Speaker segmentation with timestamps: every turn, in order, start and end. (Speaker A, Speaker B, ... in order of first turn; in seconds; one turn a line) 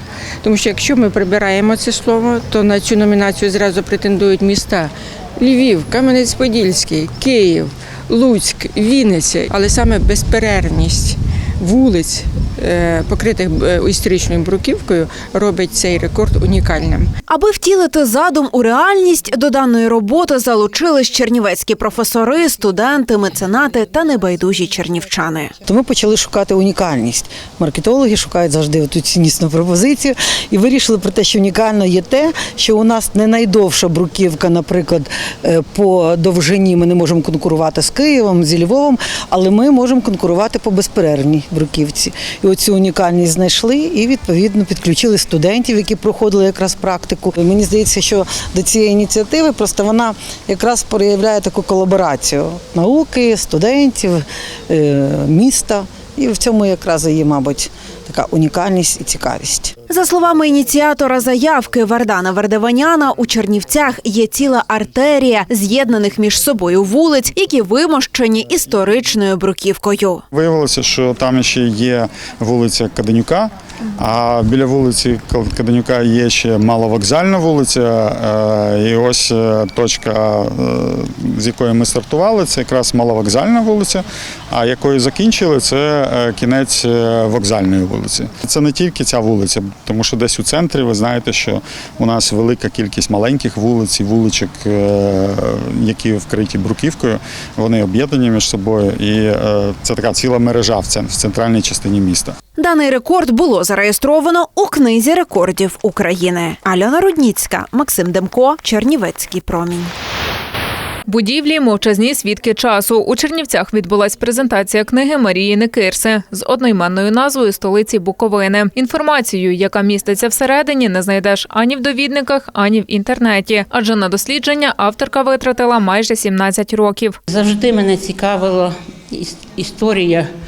Speaker A: 0.4-17.1
Speaker B: 17.3-25.5
Speaker C: 25.6-59.7
Speaker B: 59.9-70.2
Speaker D: 70.3-102.3
Speaker B: 102.6-109.9
Speaker E: 111.1-127.2
Speaker F: 127.3-130.3